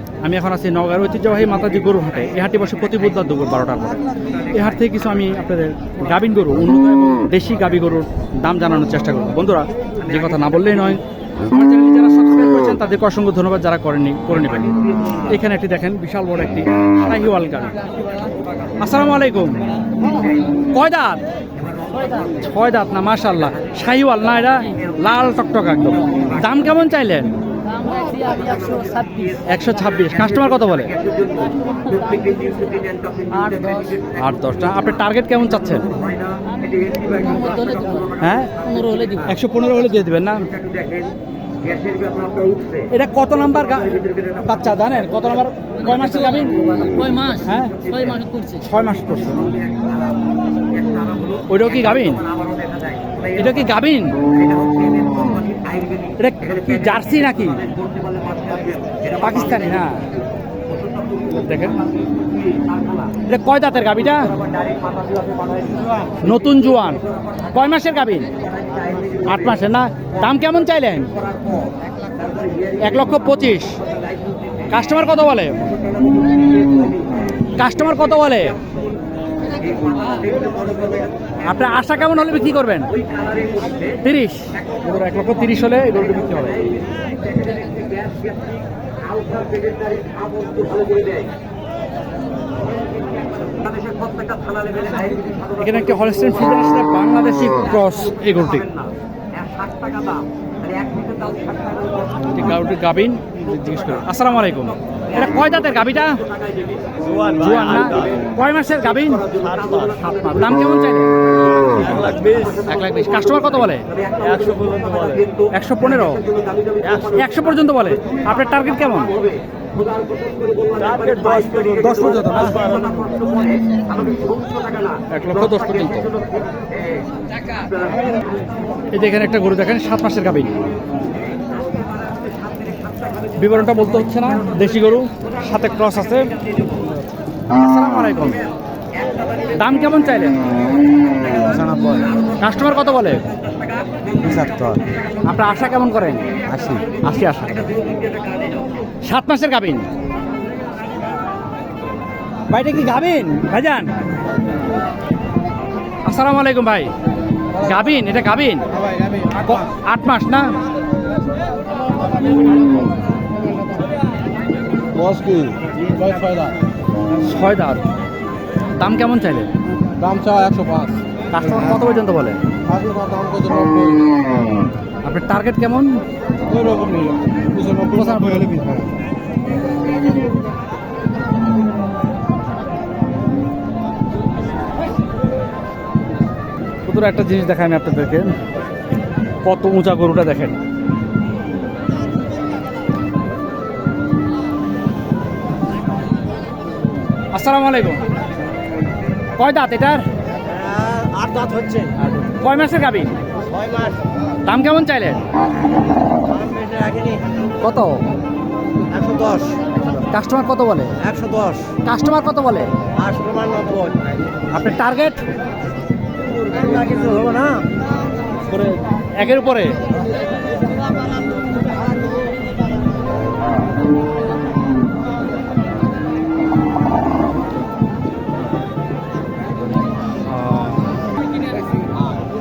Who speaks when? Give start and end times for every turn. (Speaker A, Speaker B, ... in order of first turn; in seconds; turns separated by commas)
Speaker A: 0.2-17.8, Speaker A: 18.8-19.6, Speaker A: 20.7-21.2, Speaker A: 22.1-27.3, Speaker B: 27.7-29.4, Speaker A: 29.5-31.0, Speaker B: 31.8-34.0, Speaker A: 34.1-35.9, Speaker B: 36.6-39.3, Speaker A: 38.2-38.6, Speaker A: 39.2-40.5, Speaker A: 42.9-46.6, Speaker B: 46.6-48.6, Speaker A: 47.4-47.8, Speaker A: 48.5-49.6, Speaker A: 51.5-52.3, Speaker A: 53.3-54.2, Speaker A: 56.2-57.7, Speaker A: 59.1-60.0, Speaker A: 61.4-61.9, Speaker A: 63.3-64.4, Speaker A: 66.2-68.3, Speaker A: 69.2-71.1, Speaker A: 72.8-73.8, Speaker A: 74.7-75.6, Speaker A: 77.6-78.6, Speaker A: 81.4-83.0, Speaker A: 84.0-86.7, Speaker A: 95.5-98.7, Speaker A: 102.3-106.2, Speaker C: 107.1-107.3, Speaker A: 107.2-111.1, Speaker C: 112.0-112.4, Speaker A: 112.6-113.9, Speaker C: 114.3-115.2, Speaker A: 115.5-116.3, Speaker A: 117.0-119.2, Speaker C: 120.9-123.1, Speaker A: 121.8-122.7, Speaker A: 125.1-126.1, Speaker A: 128.9-130.6, Speaker A: 133.3-136.3, Speaker A: 137.5-138.5, Speaker A: 139.5-140.4, Speaker C: 141.3-142.1, Speaker A: 142.4-143.3, Speaker C: 144.2-144.8, Speaker A: 145.3-147.7, Speaker C: 146.5-146.9, Speaker A: 149.0-149.9, Speaker A: 152.5-153.9, Speaker A: 156.1-156.9, Speaker A: 157.6-158.7, Speaker C: 158.8-159.5, Speaker A: 159.4-160.6, Speaker C: 164.9-166.6, Speaker A: 167.2-167.8, Speaker A: 168.8-169.5, Speaker C: 170.0-171.0, Speaker A: 171.3-172.4, Speaker C: 172.7-174.2, Speaker A: 175.0-176.0, Speaker C: 176.5-178.9, Speaker A: 177.9-178.5, Speaker A: 186.8-188.4, Speaker A: 189.4-190.6, Speaker A: 197.3-198.1, Speaker A: 199.4-200.1, Speaker C: 200.5-201.9, Speaker B: 201.2-201.9, Speaker A: 202.2-203.2, Speaker C: 203.5-204.0, Speaker A: 204.4-205.2, Speaker C: 206.3-207.2, Speaker B: 206.8-207.0, Speaker A: 207.6-208.0, Speaker C: 208.9-209.8, Speaker A: 210.0-210.9, Speaker C: 211.0-211.7, Speaker A: 211.8-212.7, Speaker C: 213.0-214.1, Speaker A: 214.5-215.2, Speaker C: 216.5-217.7, Speaker A: 218.4-219.8, Speaker A: 230.3-230.9